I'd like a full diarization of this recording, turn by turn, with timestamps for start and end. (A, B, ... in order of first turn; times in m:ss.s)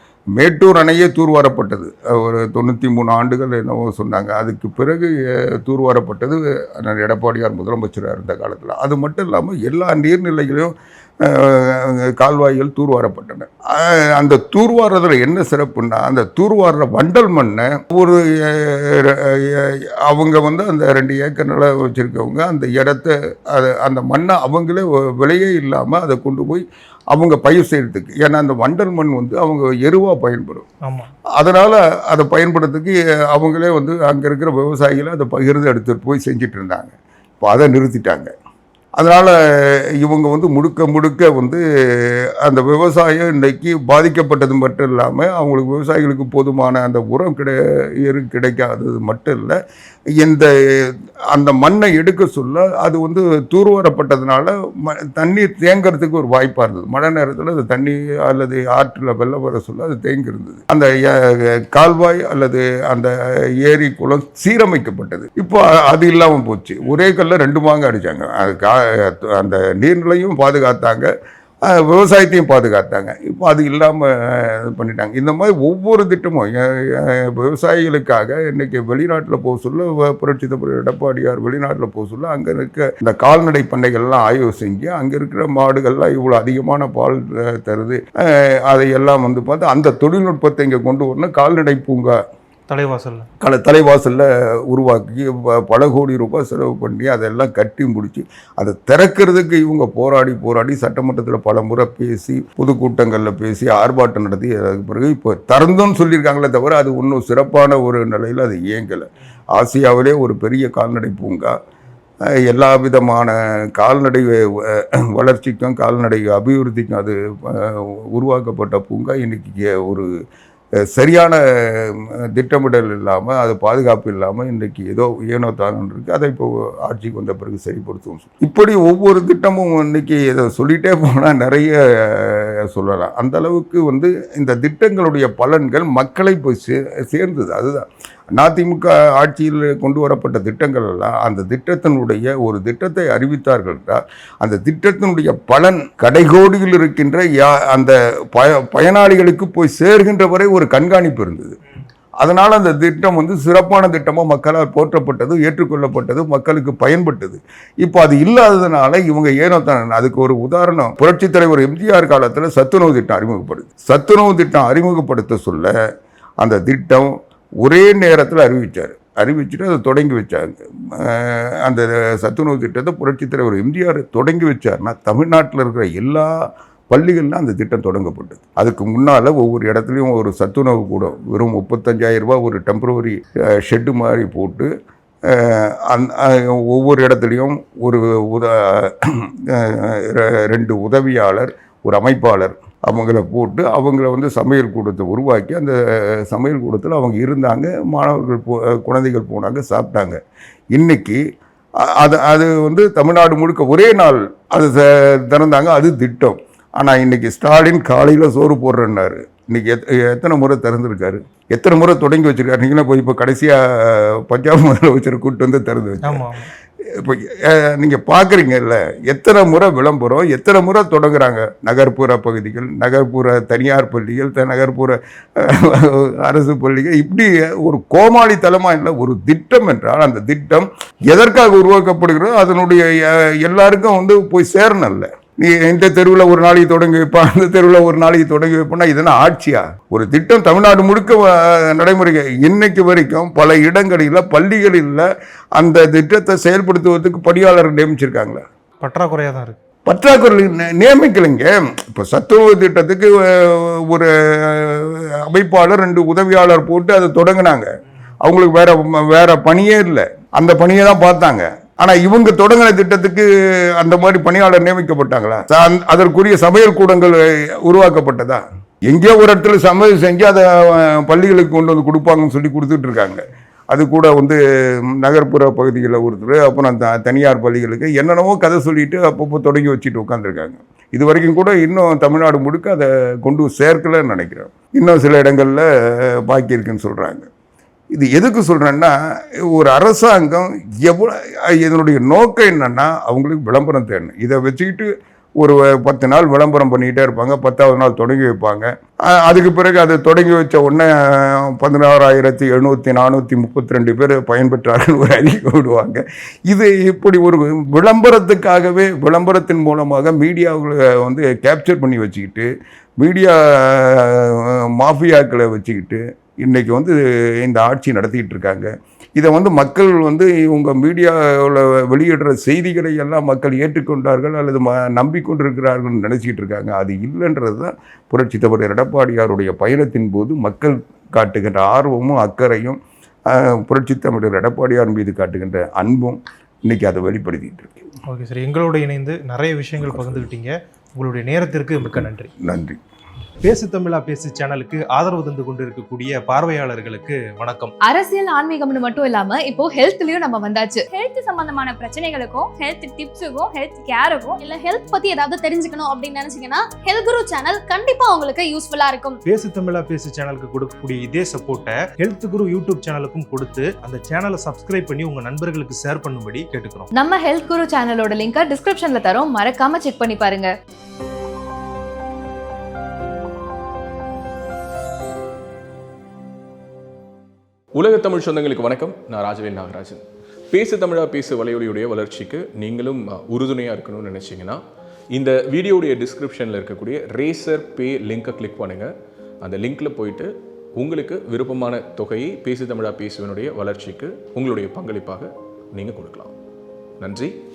0:00.4-0:30.6 A
0:30.8-0:31.1 B
0:31.4-0:38.3 A
0:39.0-0:39.3 A
0:40.0-0:41.6 A
0:42.4-0:49.6 A
0:50.2-0:50.5 A
0:51.3-1:03.1 A
1:03.6-1:11.1 A
1:11.7-1:32.2 A
1:32.7-1:33.3 B
1:33.4-1:51.5 A
1:52.4-2:00.1 A
2:00.9-2:17.8 A
2:18.4-2:31.6 A
2:32.2-2:45.7 A
2:46.4-2:56.3 A
2:56.9-3:04.7 A
3:05.3-3:15.7 A
3:16.3-3:20.2 A
3:20.7-3:21.2 A
3:22.0-3:36.3 A
3:36.0-3:36.5 B
3:36.9-4:05.1 A
4:05.6-4:08.4 A
4:08.8-4:09.6 B
4:09.9-4:17.7 A
4:18.2-4:23.3 A
4:23.8-4:34.4 A
4:35.0-4:47.3 A
4:47.9-4:48.9 A
4:49.5-5:12.5 A
5:13.0-5:32.8 A
5:33.3-5:37.8 A
5:38.1-5:42.3 B
5:41.9-5:42.8 A
5:43.4-5:47.7 B
5:47.8-5:50.8 C
5:50.9-5:59.2 D
5:59.2-6:06.9 B
6:06.9-6:10.5 C
6:17.8-6:24.6 E
6:25.1-6:28.9 E
6:29.4-6:36.3 E
6:37.0-6:37.3 E